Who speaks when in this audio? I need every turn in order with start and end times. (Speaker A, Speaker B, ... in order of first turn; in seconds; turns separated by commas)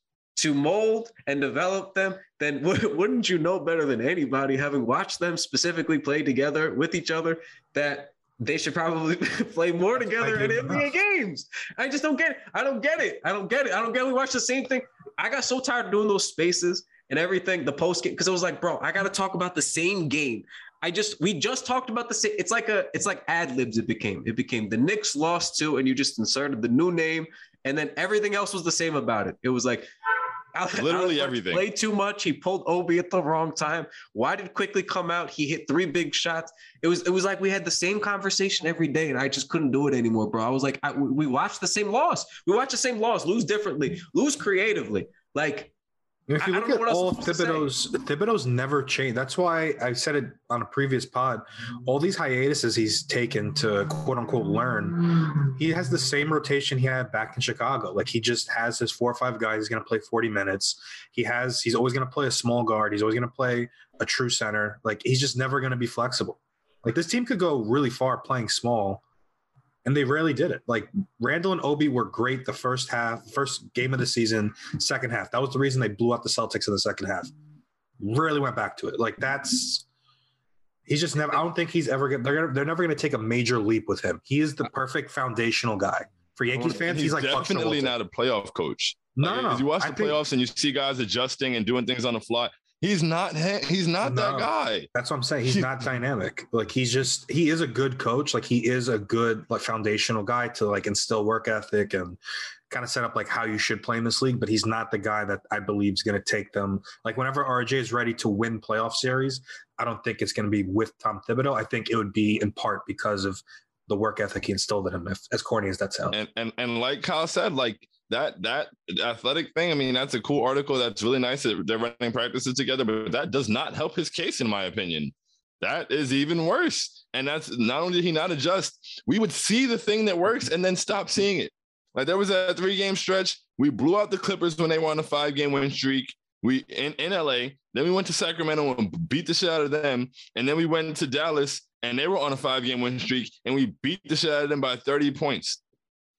Speaker A: 0.3-29.9, Speaker B: 10.0-10.9, Speaker A: 30.5-45.7, Speaker C: 30.8-31.6, Speaker B: 46.3-69.0, Speaker A: 46.4-47.7, Speaker B: 69.8-77.3, Speaker B: 78.0-79.8, Speaker B: 80.9-87.9, Speaker C: 86.6-94.9, Speaker B: 89.2-90.2, Speaker B: 94.0-102.2, Speaker B: 102.7-116.2, Speaker C: 116.1-145.6